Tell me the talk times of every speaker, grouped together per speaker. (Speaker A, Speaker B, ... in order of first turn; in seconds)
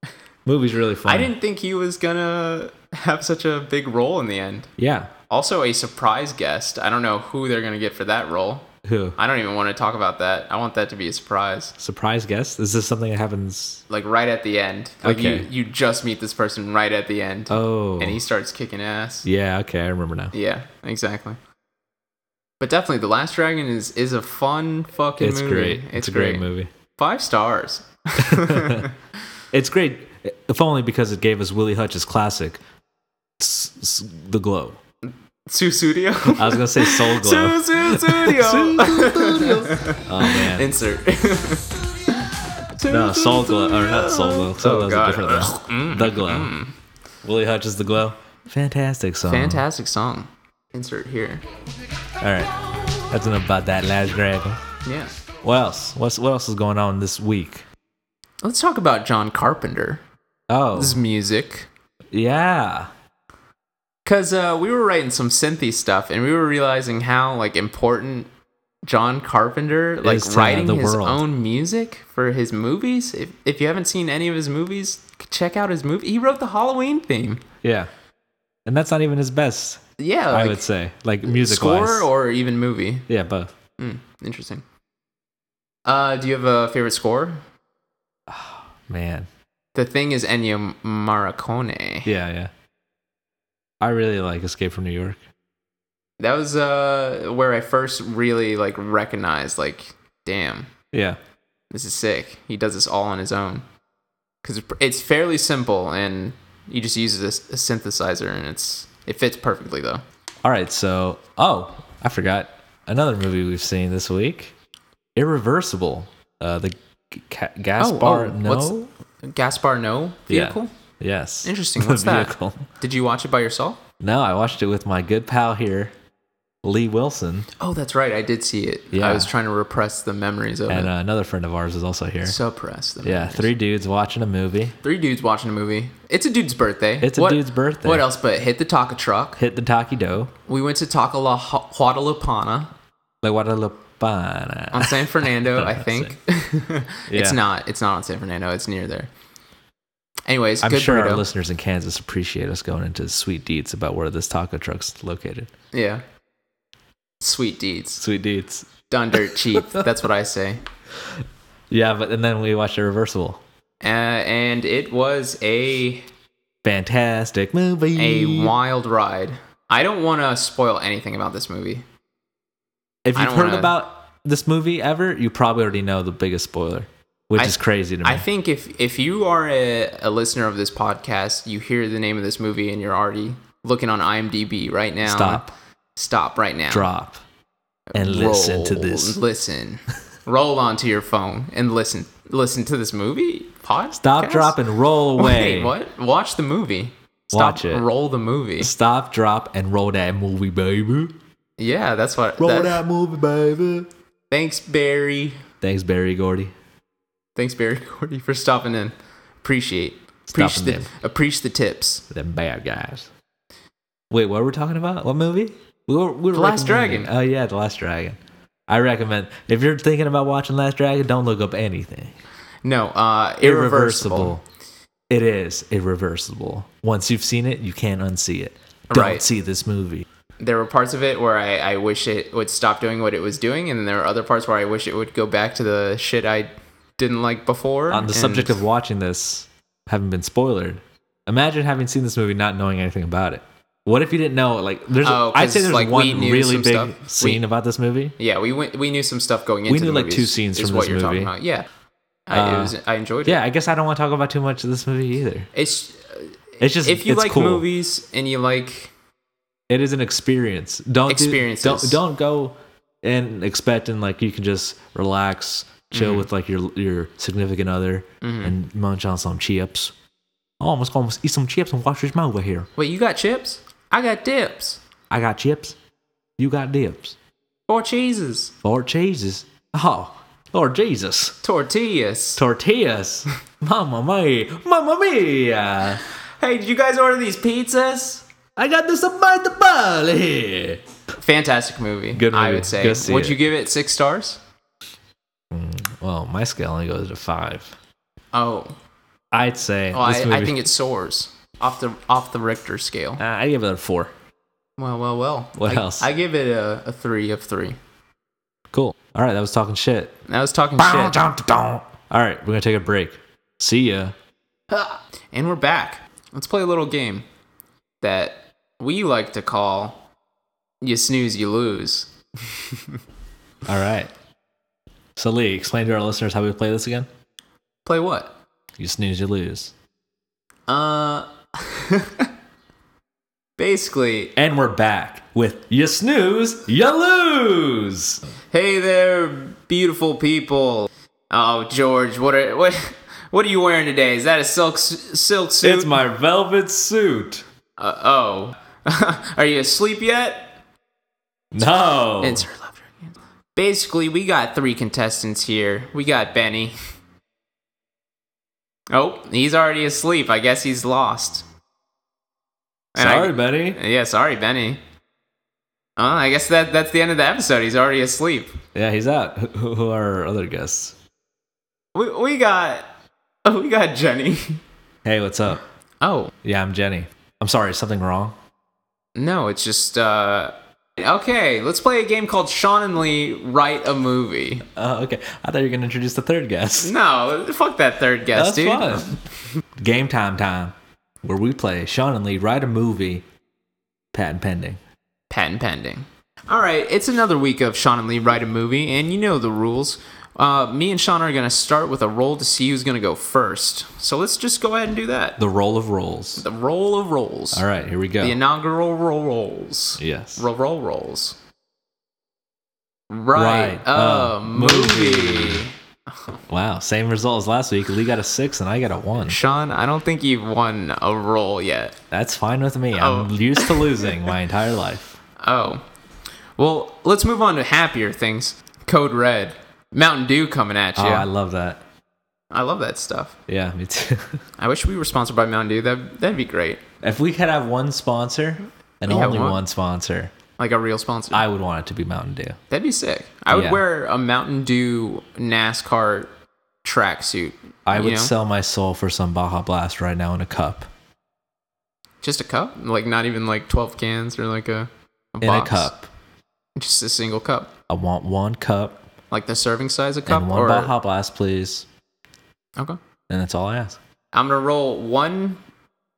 Speaker A: 0.5-1.3, 4.8-5.1, 8.8-9.2, 11.8-13.8, 15.0-15.5, 17.5-18.2, 19.2-20.3, 25.2-26.7, 28.2-28.9, 29.5-32.6, 33.4-34.8, 36.3-40.7, 42.9-46.5, 47.2-49.6, 52.2-52.5, 53.1-54.6, 55.4-57.6, 60.5-61.0, 62.1-62.9, 70.0-71.2, 77.6-77.9, 78.7-82.1, 83.1-83.5, 88.3-89.3, 92.1-92.5, 93.8-95.2, 100.9-101.2, 110.4-114.5, 115.2-118.9, 120.3-122.7, 124.0-126.0, 126.6-127.5, 128.9-129.3, 130.7-132.4, 133.0-134.8, 137.0-138.1, 139.4-140.3, 143.2-146.2, 147.1-147.4, 150.6-155.5, 158.0-159.8, 161.7-163.4, 166.6-168.5, 173.1-178.2, 185.0-185.5, 186.7-187.2, 187.9-189.2, 194.0-195.7, 197.3-197.9, 198.6-201.2, 202.4-203.9, 205.6-206.5, 210.3-210.9, 212.1-213.1, 214.1-222.2, 223.4-224.4, 225.1-230.1, 237.9-248.2, 249.7-251.3, 252.3-255.5, 256.6-257.7, 259.7-269.9, 270.6-272.7, 275.1-275.8, 276.4-277.2, 278.6-281.4, 282.4-286.0, 288.6-290.8, 292.1-293.4, 295.5-297.8, 299.3-300.6, 303.2-304.1, 305.6-306.1, 308.7-310.2, 310.8-314.1, 323.6-324.1, 325.2-327.1, 328.8-329.7, 334.4-338.2, 345.6-347.4, 351.5-352.4, 363.0-363.8, 368.8-371.0, 375.1-375.6, 376.4-378.4, 384.7-386.9, 388.3-389.2, 389.8-393.2, 394.1-394.8, 405.4-406.4, 407.5-408.4, 410.0-410.5, 413.3-415.6, 416.5-419.4, 422.1-425.2, 431.0-431.8, 433.5-434.4, 437.0-440.3, 441.3-442.6, 443.5-443.8, 447.9-450.9, 455.4-456.1, 457.9-459.0, 460.3-461.9, 463.3-464.0
Speaker B: 1.1-4.7, 5.3-11.8, 13.9-19.3, 20.3-21.4, 22.6-29.0, 35.5-46.7, 49.3-51.4, 54.9-55.1, 58.4-60.0, 60.7-61.7, 64.0-68.3, 68.8-77.4, 80.0-80.7, 81.2-83.1, 83.8-84.6, 85.9-87.4, 89.8-92.1, 96.2-100.7, 101.7-103.7, 104.4-110.0, 117.8-120.7, 121.4-123.8, 127.6-130.9, 132.2-133.5, 134.8-139.4, 140.5-142.7, 144.7-149.1, 150.3-151.3, 155.7-156.0, 157.2-158.0, 158.9-160.6, 163.8-166.1, 168.0-171.8, 173.2-173.8, 177.3-186.9, 187.9-194.6, 195.2-198.7, 201.6-202.8, 204.3-205.4, 207.4-212.1, 216.3-217.1, 222.6-224.4, 228.9-229.3, 230.4-238.6, 245.0-247.4, 248.2-251.7, 252.3-253.4, 255.5-258.9, 261.1-262.0, 265.9-266.3, 268.2-268.6, 272.8-274.8, 277.7-278.5, 281.4-282.4, 286.4-288.3, 291.2-294.4, 298.3-298.8, 299.9-303.2, 304.8-307.8, 310.3-311.2, 314.7-317.2, 318.0-320.1, 320.8-323.0, 327.9-328.4, 330.7-332.3, 333.6-334.3, 338.5-345.9, 347.8-350.6, 352.2-356.8, 358.9-361.5, 362.9-364.8, 366.0-368.6, 371.9-372.9, 373.4-374.6, 376.0-376.3, 379.2-384.7, 386.8-389.2, 395.3-405.4, 406.4-407.6, 408.2-411.4, 413.1-416.4, 419.2-422.0, 422.9-424.2, 425.4-425.8, 426.6-431.3, 432.5-433.4, 434.6-436.8, 439.1-439.6, 440.6-441.4, 442.7-446.3, 446.8-448.3, 452.2-455.9, 456.8-457.7, 459.3-460.9, 464.3-465.6